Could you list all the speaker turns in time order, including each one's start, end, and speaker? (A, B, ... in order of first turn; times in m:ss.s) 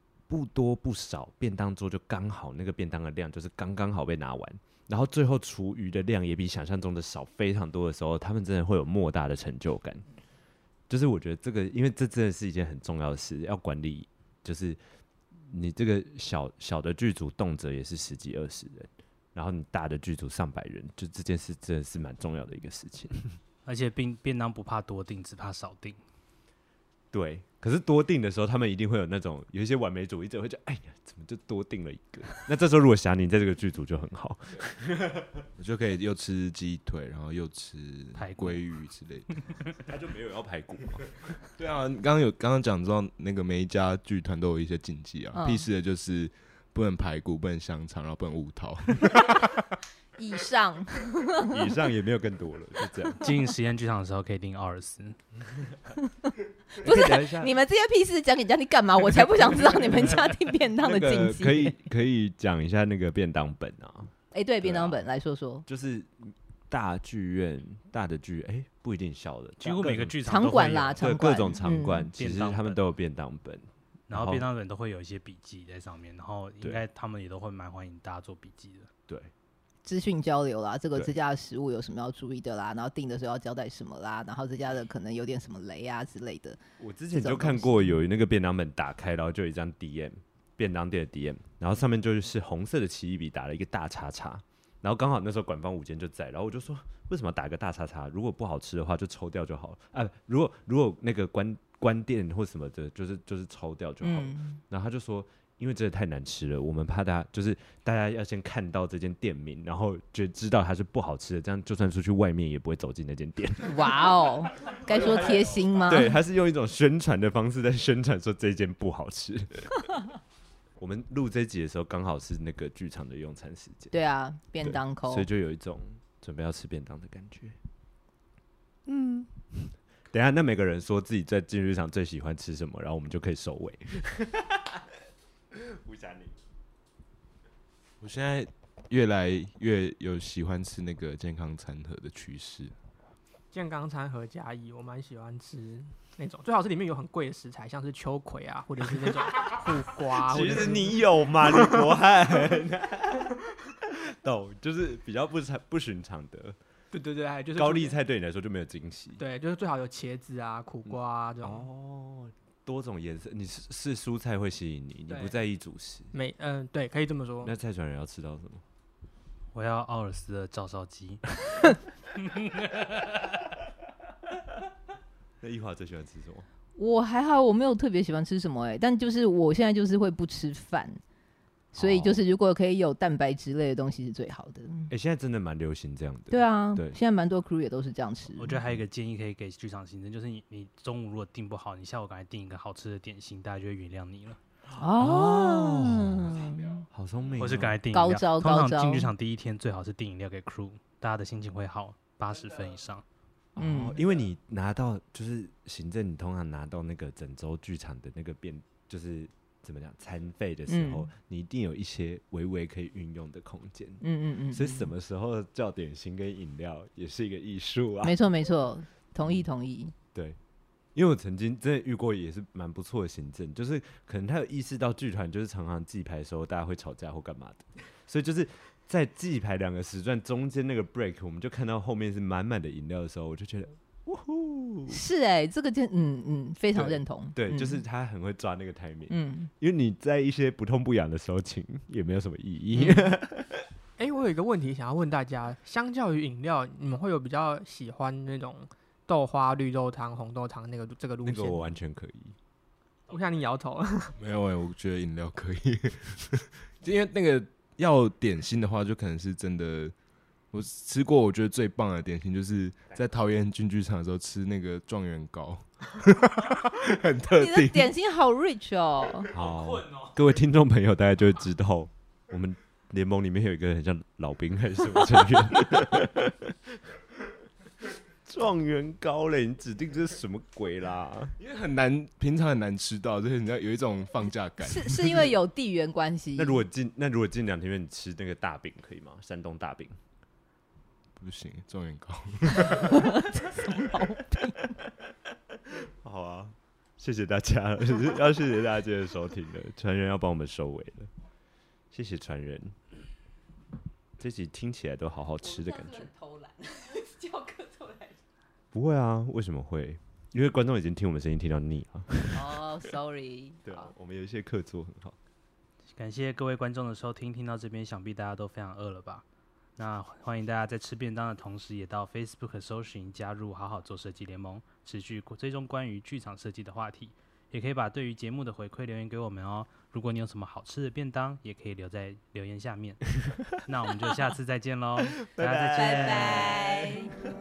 0:00.3-0:10.0 A
0:10.9-0:14.8 A
0:15.4-0:23.4 A
0:23.7-0:26.0 B
0:27.1-0:35.5 A
0:35.6-0:39.4 C
0:38.2-0:38.6 B
0:39.8-0:41.4 A
0:41.6-0:49.5 C
0:45.4-0:45.7 D
0:50.2-0:51.6 D
0:51.5-0:53.3 A
0:53.2-0:55.2 B
0:56.1-1:01.8 D
0:56.8-0:57.5 A
1:00.8-1:05.0 A
1:04.3-1:05.6 D
1:05.7-1:10.2 A
1:09.6-1:11.1 B
1:10.3-1:12.1 D
1:11.0-1:14.4 A
1:12.2-1:12.8 B
1:14.1-1:18.9 B
1:19.8-1:26.6 D
1:26.8-1:54.0 A
1:27.1-1:28.0 D
1:44.0-1:44.6 D
1:53.6-1:56.2 D
1:54.9-1:59.9 A
2:00.8-2:04.0 A
2:03.9-2:05.3 D
2:04.6-2:07.6 A
2:08.9-2:14.9 A
2:15.5-2:16.4 A
2:18.0-2:22.7 C
2:23.5-2:31.9 E
2:30.2-2:36.6 A
2:36.9-2:38.0 E
2:37.6-2:39.2 A
2:39.2-2:41.6 E
2:40.9-2:46.1 A
2:45.1-2:45.4 E
2:46.1-2:47.5 E
2:47.4-2:48.6 A
2:49.5-2:51.3 B
2:52.2-2:53.3 B
2:55.4-2:56.5 A
2:56.8-3:01.0 D
3:01.7-3:04.9 D
3:01.8-3:02.2 A
3:04.9-3:07.0 A
3:06.3-3:08.6 D
3:08.4-3:14.4 B
3:14.7-3:17.8 A
3:14.8-3:16.9 D
3:17.4-3:23.0 B
3:17.9-3:19.1 D
3:23.6-3:38.2 A
3:23.6-3:24.0 D
3:30.7-3:31.1 D
3:34.0-3:34.9 D
3:38.0-3:39.9 D
3:41.0-3:55.0 A
3:54.9-3:57.8 D
3:56.8-4:03.7 A
3:59.1-3:59.5 D
4:02.7-4:03.2 D
4:04.0-4:11.6 E
4:11.2-4:12.4 A
4:13.1-4:14.2 E
4:14.2-4:19.9 C
4:20.5-4:27.9 C
4:27.3-4:29.3 D
4:29.3-4:36.8 A
4:38.2-4:41.4 A
4:41.4-4:45.3 C
4:44.6-4:46.6 D
4:46.4-4:50.0 A
4:51.2-4:53.0 C
4:52.6-4:54.7 D
4:55.6-5:01.1 A
5:01.9-5:02.8 A
5:04.2-5:06.1 A
5:05.4-5:08.1 D
5:08.7-5:12.6 A
5:12.3-5:13.9 D
5:13.6-5:15.2 A
5:15.9-5:19.2 B
5:19.8-5:36.6 B
5:35.2-5:36.9 A
5:35.8-5:37.1 D